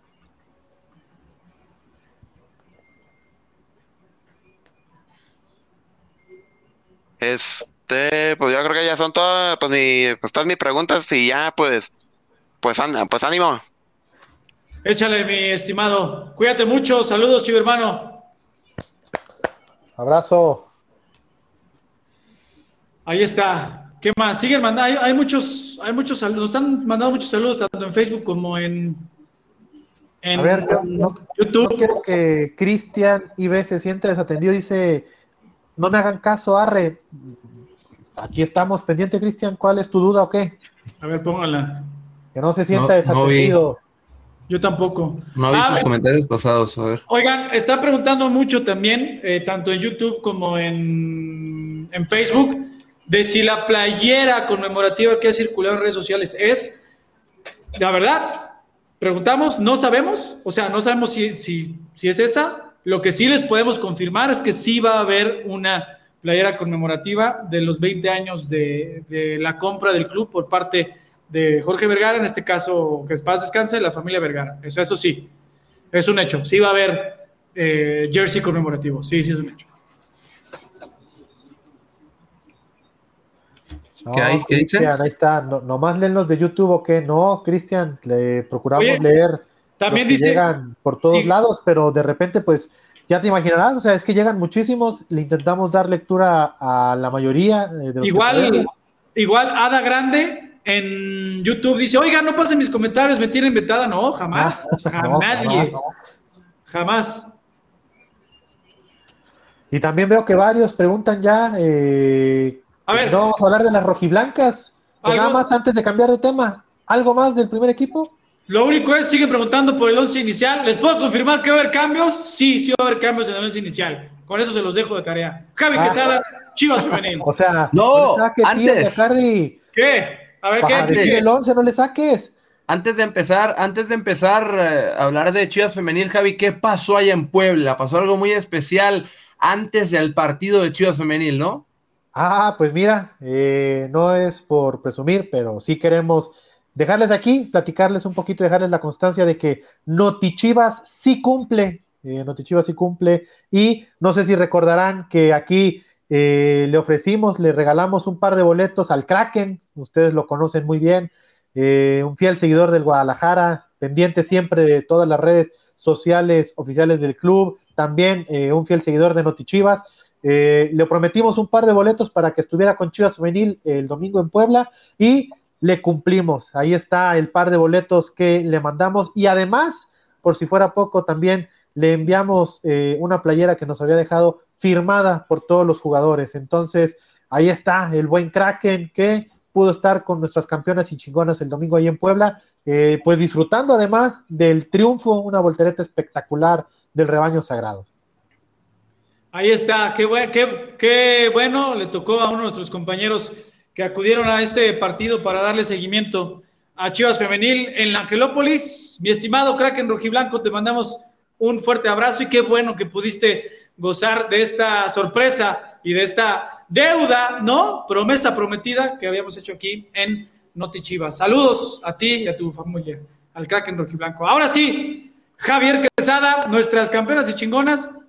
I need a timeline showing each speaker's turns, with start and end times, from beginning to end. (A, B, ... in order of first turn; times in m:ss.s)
0:07.2-0:11.9 A
0:12.6-0:13.6 A
0:14.8-0:18.2 B
0:20.0-0:20.7 C
0:23.0-0:29.1 B
0:30.2-0:31.9 B
0:30.3-0:35.1 C
0:35.8-0:37.1 C
0:38.1-0:40.6 C
0:41.0-0:41.9 B
0:42.3-0:43.8 C
0:42.7-0:43.6 D
0:44.5-0:45.9 B
0:45.3-0:47.0 D
0:47.1-0:56.8 B
0:57.7-1:15.3 B
1:15.9-1:19.7 B
1:24.0-1:38.7 C
1:24.1-1:24.9 D
1:28.8-1:29.0 B
1:29.8-1:30.4 B
1:38.0-1:45.8 B
1:44.3-1:45.9 C
1:46.7-1:47.3 B
1:49.7-1:58.1 C
1:52.9-1:53.2 B
1:55.0-1:55.4 B
1:58.5-2:07.3 B
2:05.7-2:06.2 C
2:07.2-2:09.6 C
2:07.7-2:09.0 D
2:09.7-2:11.2 B
2:10.6-2:12.3 C
2:10.7-2:11.2 D
2:12.7-2:21.6 D
2:22.1-3:17.8 C
3:19.3-3:47.9 B